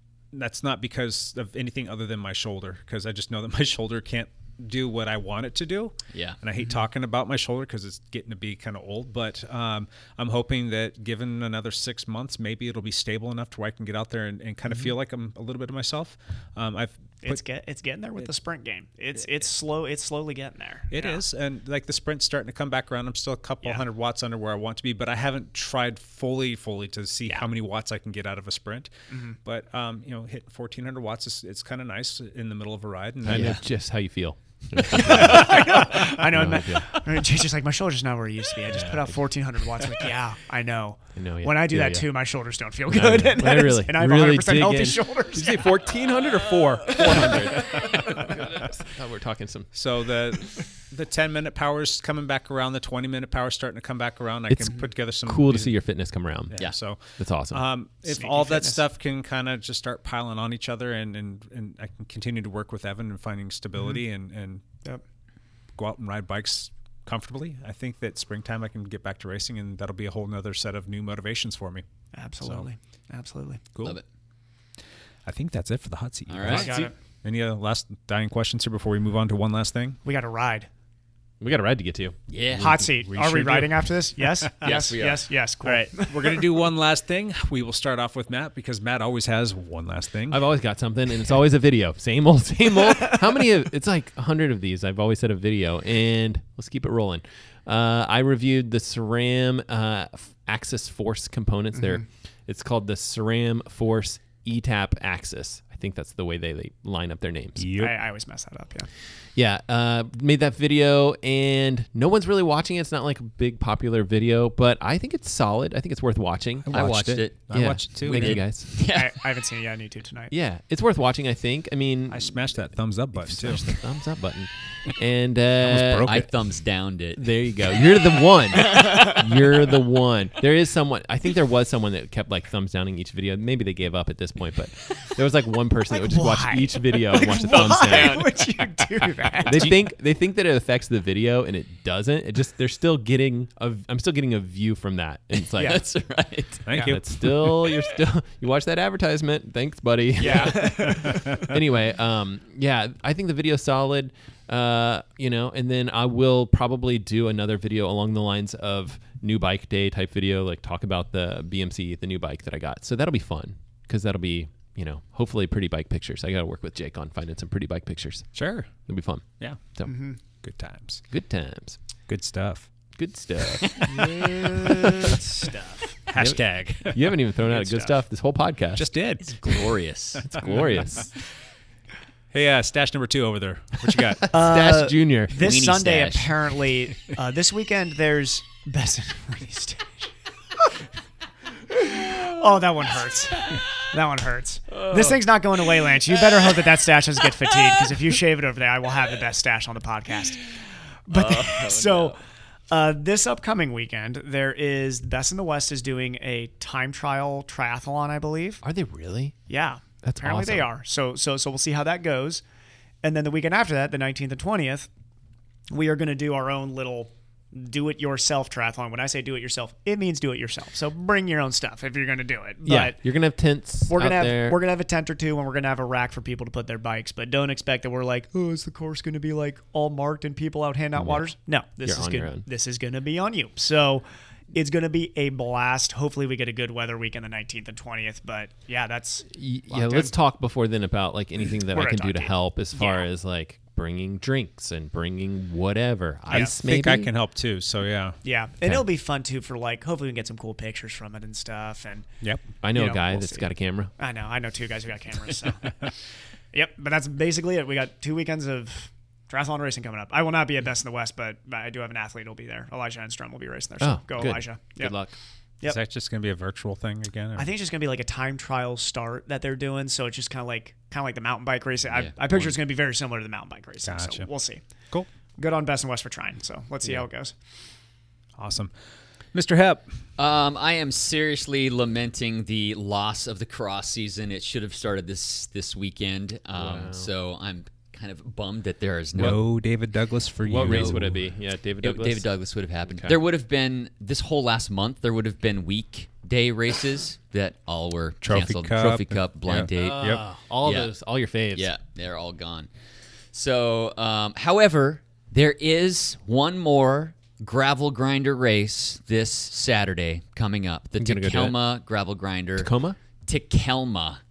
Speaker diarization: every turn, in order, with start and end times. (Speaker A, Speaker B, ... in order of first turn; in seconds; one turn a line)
Speaker A: 0.3-17.4
Speaker B: 6.1-6.4
Speaker C: 17.2-21.2
Speaker A: 20.9-28.9
Speaker C: 29.1-29.4
Speaker A: 29.4-33.6
Speaker D: 33.2-36.9
Speaker B: 33.3-33.6
Speaker C: 35.0-45.9
Speaker D: 38.7-39.1
Speaker D: 41.2-42.1
Speaker D: 42.9-49.7
Speaker C: 46.9-47.9
Speaker A: 49.7-55.8
Speaker D: 54.5-56.6
Speaker A: 56.5-64.6
Speaker D: 57.2-57.6
Speaker C: 58.0-58.8
Speaker A: 65.8-71.8
Speaker C: 72.1-73.6
Speaker A: 73.7-74.0
Speaker A: 75.3-80.0
Speaker B: 76.3-76.9
Speaker C: 76.5-77.0
Speaker C: 80.0-80.7
Speaker D: 81.4-82.2
Speaker B: 82.3-82.7
Speaker A: 82.6-84.7
Speaker C: 82.6-86.6
Speaker B: 84.6-85.3
Speaker A: 85.6-90.4
Speaker D: 90.3-107.7
Speaker A: 107.6-107.9
Speaker C: 107.8-108.9
Speaker D: 109.4-118.7
Speaker A: 116.7-118.4
Speaker B: 116.7-119.1
Speaker C: 118.8-120.3
Speaker D: 120.3-122.4
Speaker A: 122.1-123.6
Speaker D: 123.1-126.1
Speaker A: 125.6-126.3
Speaker B: 126.0-127.3
Speaker D: 127.2-138.2
Speaker C: 135.9-139.8
Speaker B: 137.5-139.6
Speaker D: 139.5-145.8
Speaker B: 145.6-146.7
Speaker A: 146.7-147.0
Speaker D: 146.8-169.9
Speaker C: 150.2-151.5
Speaker A: 151.0-151.4
Speaker A: 168.3-168.8
Speaker C: 169.9-170.2
Speaker A: 170.4-171.0
Speaker D: 171.1-171.8
Speaker A: 172.1-172.7
Speaker D: 173.0-173.9
Speaker B: 173.6-174.0
Speaker C: 174.0-176.0
Speaker D: 174.7-175.2
Speaker A: 176.1-177.1
Speaker D: 176.2-178.9
Speaker C: 177.6-177.9
Speaker A: 178.8-179.7
Speaker B: 179.2-180.3
Speaker D: 180.3-181.1
Speaker A: 180.3-180.6
Speaker A: 182.3-184.3
Speaker D: 184.3-185.4
Speaker C: 184.3-190.1
Speaker B: 185.3-186.3
Speaker C: 191.7-200.5
Speaker B: 192.1-192.3
Speaker B: 193.3-193.7
Speaker B: 194.7-196.6
Speaker B: 197.6-197.9
Speaker C: 201.1-202.2
Speaker B: 201.1-202.2
Speaker C: 202.7-208.6
Speaker D: 208.6-209.4
Speaker C: 209.5-212.4
Speaker D: 210.0-210.7
Speaker C: 213.0-214.9
Speaker C: 215.7-223.0
Speaker D: 222.6-224.6
Speaker C: 223.9-240.1
Speaker D: 230.9-231.3
Speaker D: 231.8-232.4
Speaker D: 239.3-247.1
Speaker C: 241.7-243.1
Speaker A: 246.3-248.2
Speaker C: 248.2-252.1
Speaker D: 252.6-253.9
Speaker C: 252.7-255.9
Speaker C: 256.5-265.0
Speaker D: 263.8-265.1
Speaker A: 265.6-267.5
Speaker C: 267.4-274.6
Speaker B: 271.9-272.2
Speaker A: 273.8-274.3
Speaker C: 275.4-277.3
Speaker A: 278.4-278.7
Speaker A: 279.3-279.9
Speaker B: 280.2-289.4
Speaker D: 286.5-287.1
Speaker A: 289.2-291.2
Speaker D: 290.4-292.3
Speaker B: 290.5-291.0
Speaker B: 291.8-300.9
Speaker D: 292.9-293.2
Speaker A: 298.2-300.2
Speaker D: 299.8-301.7
Speaker B: 301.5-302.7
Speaker B: 303.3-312.7
Speaker D: 311.0-311.6
Speaker D: 312.6-313.0
Speaker B: 313.2-314.2